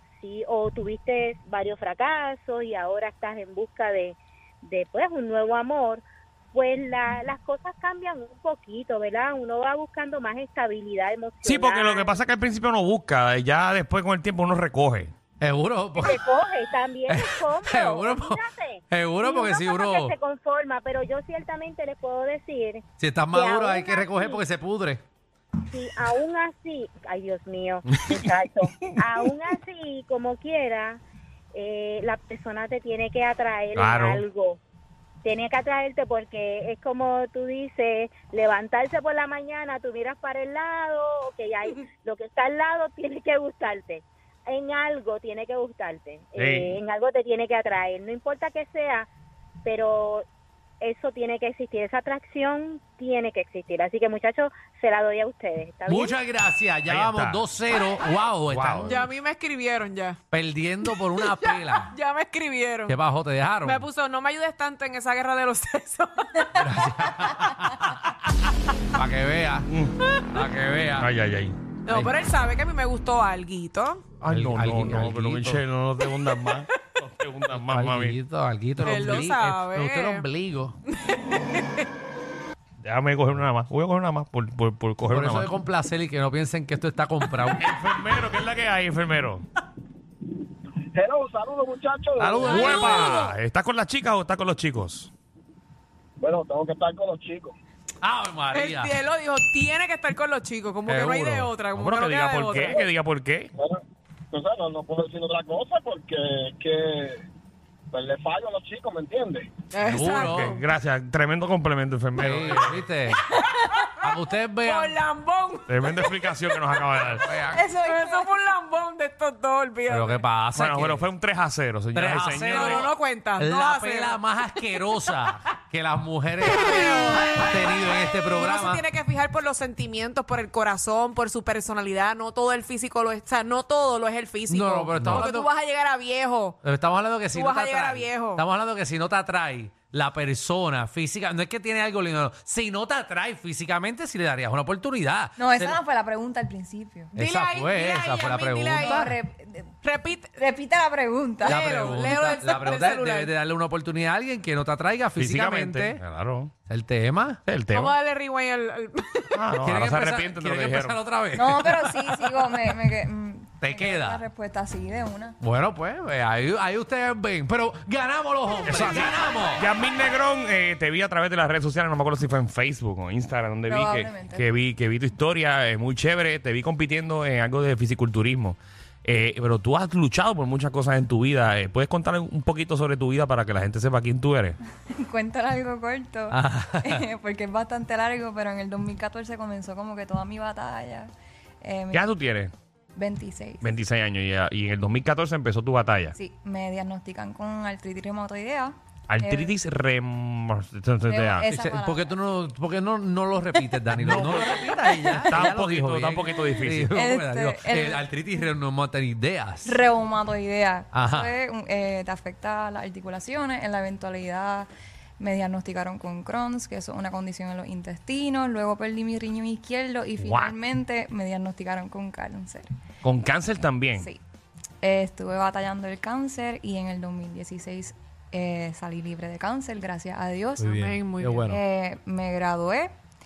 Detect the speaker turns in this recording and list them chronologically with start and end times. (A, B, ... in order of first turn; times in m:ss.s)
0:00.2-0:12.2 A
0:11.4-0:15.1 B
0:15.4-0:16.2 C
0:15.9-0:24.4 A
0:17.1-0:20.1 C
0:23.0-0:25.0 C
0:25.6-0:31.0 A
0:31.5-0:34.6 A
0:33.8-0:34.2 B
0:35.2-0:49.1 A
0:46.4-0:46.8 B
0:49.6-0:50.2 A
0:50.8-0:56.2 A
0:55.9-0:59.0 C
0:56.9-0:57.4 B
0:58.5-0:58.9 B
0:58.8-1:00.2 D
1:00.3-1:01.9 C
1:01.1-1:03.0 D
1:02.9-1:03.8 C
1:03.6-1:06.6 D
1:06.5-1:08.1 C
1:08.9-1:09.7 C
1:09.6-1:09.9 B
1:10.3-1:11.1 C
1:11.0-1:11.6 B
1:11.9-1:14.0 D
1:14.2-1:18.2 B
1:14.2-1:15.6 C
1:17.5-1:20.7 C
1:18.8-1:20.3 D
1:20.9-1:21.9 D
1:22.8-1:25.5 B
1:25.1-1:27.7 C
1:27.6-1:29.4 B
1:30.9-1:33.1 E
1:32.2-1:35.1 B
1:32.3-1:32.6 C
1:32.4-1:33.4 D
1:36.2-1:37.6 E
1:38.0-1:39.0 C
1:38.5-1:42.8 D
1:40.9-1:41.5 C
1:41.7-1:43.5 B
1:44.3-1:47.2 E
1:47.9-1:49.5 E
1:49.7-1:50.6 D
1:49.8-1:50.5 C
1:50.1-1:52.8 B
1:52.2-1:53.2 C
1:53.3-1:56.3 D
1:54.0-1:55.0 C
1:55.7-1:57.2 B
1:57.2-1:57.6 C
1:57.5-1:58.3 F
1:57.8-2:00.2 D
1:59.9-2:01.0 C
2:00.5-2:02.8 B
2:01.9-2:08.8 C
2:02.4-2:04.7 D
2:06.5-2:16.6 D
2:14.5-2:15.5 C
2:16.6-2:25.8 C
2:17.3-2:18.4 D
2:25.4-2:27.1 F
2:27.1-2:29.1 D
2:27.2-2:29.1 C
2:28.7-2:29.7 F
2:29.8-2:30.3 D
2:30.3-2:32.4 F
2:31.4-2:33.3 D
2:31.5-2:36.0 C
2:35.2-2:36.5 B
2:36.6-2:37.4 C
2:37.4-2:37.9 B
2:37.7-2:39.4 D
2:39.3-2:41.0 B
2:39.6-2:42.7 C
2:41.3-2:45.4 F
2:43.6-2:44.2 C
2:45.4-2:49.6 C
2:48.6-3:04.6 B
2:53.7-2:54.5 F
3:05.0-3:11.1 F
3:06.3-3:07.0 C
3:11.6-3:12.1 F
3:11.9-3:12.5 B
3:12.9-3:13.7 F
3:13.6-3:16.2 B
3:16.1-3:19.5 F
3:19.1-3:21.5 B
3:21.1-3:22.1 F
3:21.5-3:29.8 C
3:24.0-3:24.5 B
3:25.3-3:26.9 B
3:26.9-3:28.1 F
3:29.6-3:34.7 F
3:30.9-3:31.3 C
3:35.2-3:42.7 F
3:40.2-3:40.6 B
3:43.0-3:44.1 B
3:44.8-3:50.9 F
3:50.6-3:51.6 C
3:50.7-3:51.5 D
3:51.5-3:52.9 F